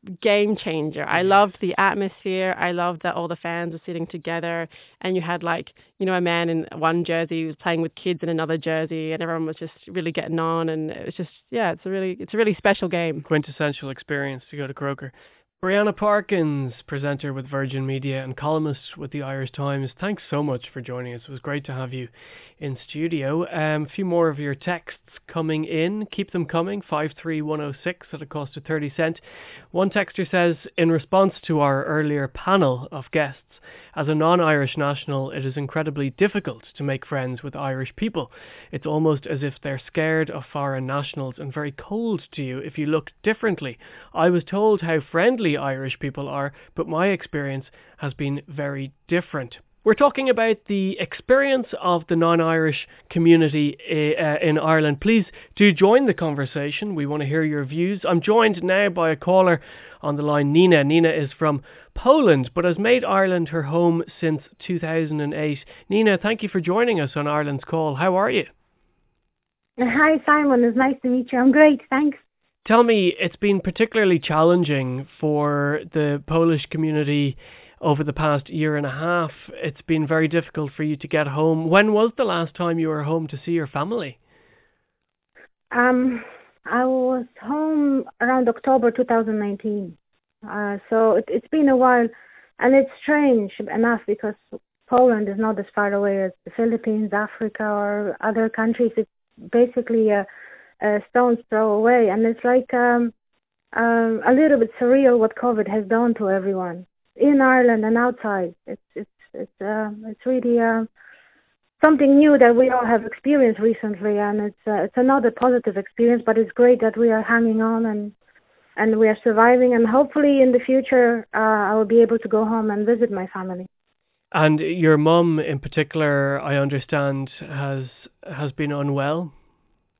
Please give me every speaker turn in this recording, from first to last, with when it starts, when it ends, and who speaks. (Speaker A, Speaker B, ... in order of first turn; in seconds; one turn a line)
Speaker A: 0.2-13.3
Speaker B: 1.1-1.5
Speaker B: 13.3-68.5
Speaker C: 69.8-72.2
Speaker B: 72.6-84.2
Speaker C: 85.7-100.2
Speaker C: 100.8-103.1
Speaker C: 103.7-110.9
Speaker C: 111.8-118.1
Speaker C: 118.8-123.7
Speaker B: 124.3-129.3